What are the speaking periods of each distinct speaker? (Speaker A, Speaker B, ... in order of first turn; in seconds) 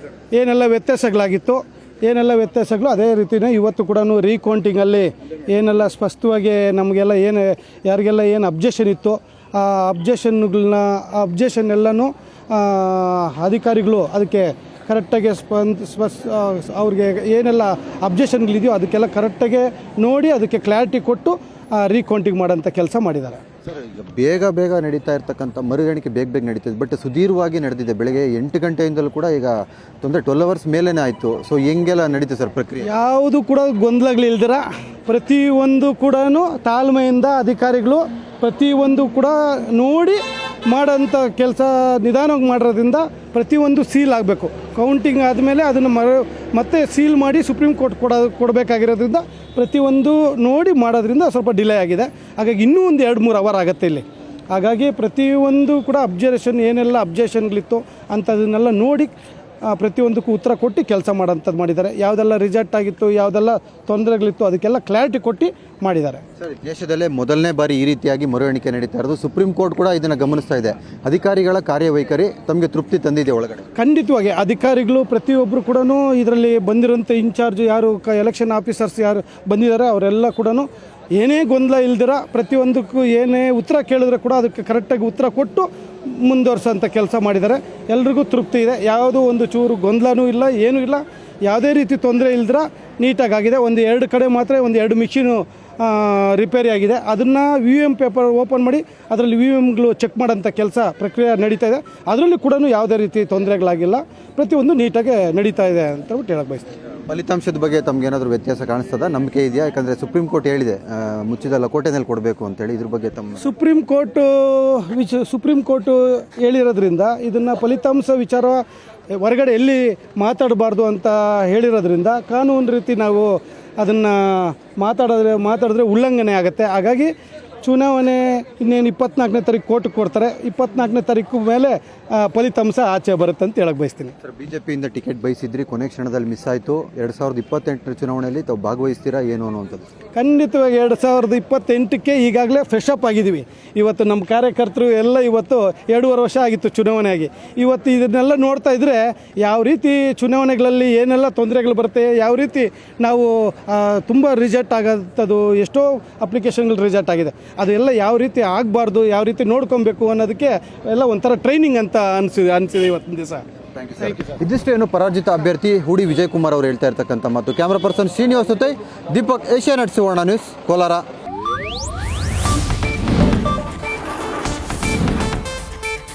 Speaker A: 0.3-23.4, 32.8-59.1, 59.7-66.2, 73.8-106.8, 113.4-118.6, 119.2-134.1, 140.2-163.4
Speaker B: 23.6-32.9, 66.4-73.7, 107.1-113.4, 134.2-139.9, 163.8-171.0